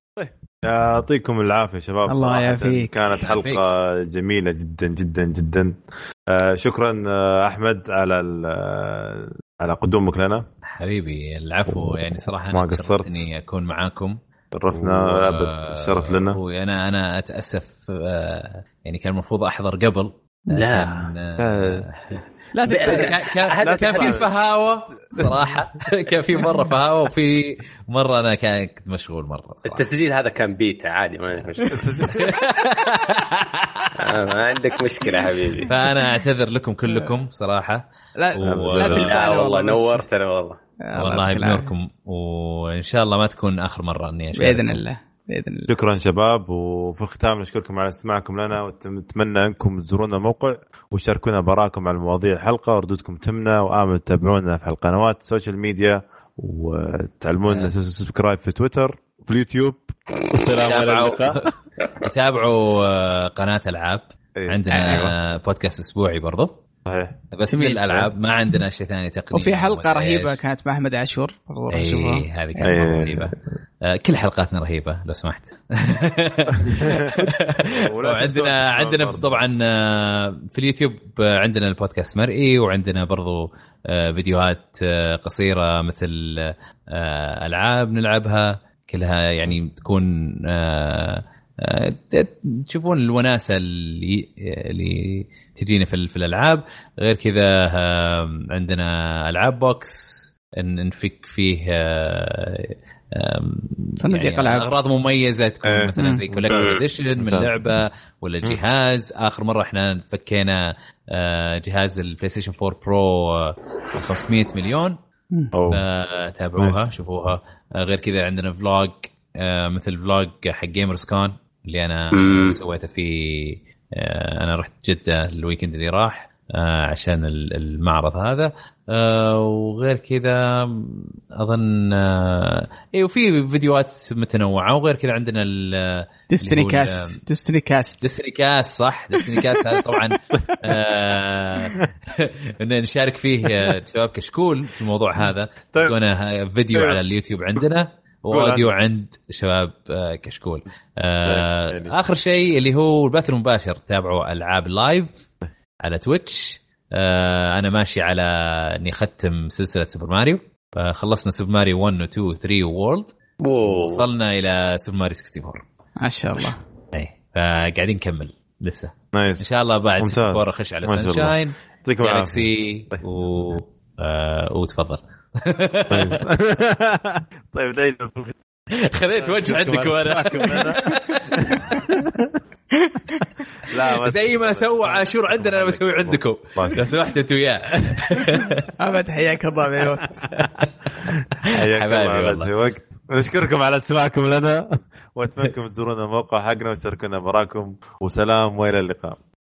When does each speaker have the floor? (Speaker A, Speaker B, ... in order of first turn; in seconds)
Speaker A: 0.2-5.8, 6.3-10.4, 11.7-12.0, 12.5-13.2, 14.5-16.4, 21.4-21.9, 23.6-24.3, 31.7-32.4, 38.4-39.1, 45.7-61.5, 64.4-65.1, 66.8-67.2, 72.7-73.3, 76.5-79.4, 105.7-107.6, 115.5-115.8, 116.6-116.9, 146.7-147.0, 148.3-148.7, 151.2-151.9, 169.1-173.0, 175.9-178.4, 179.2-182.4, 183.7-186.8, 191.4-199.2
Speaker B: 2.1-2.9, 22.5-23.2, 38.2-40.0, 40.8-41.7, 44.4-45.7, 64.7-65.1, 67.5-68.1, 69.3-72.8, 104.0-104.7, 136.3-138.0, 166.0-166.6, 182.8-183.2, 188.8-190.2
Speaker C: 3.3-3.6, 10.7-14.2, 14.7-22.2, 22.7-29.9, 32.2-34.0, 35.7-39.1, 41.0-44.8, 60.7-66.6, 67.3-70.4, 71.7-115.0, 115.7-137.2, 138.0-155.3, 155.8-163.1, 163.7-165.6, 166.9-176.2, 178.7-181.6, 184.0-188.6, 190.3-192.5
Speaker D: 20.5-21.1, 22.7-24.2, 29.7-32.0, 34.0-35.7, 39.0-40.6, 106.5-106.8, 122.1-122.6, 163.4-164.1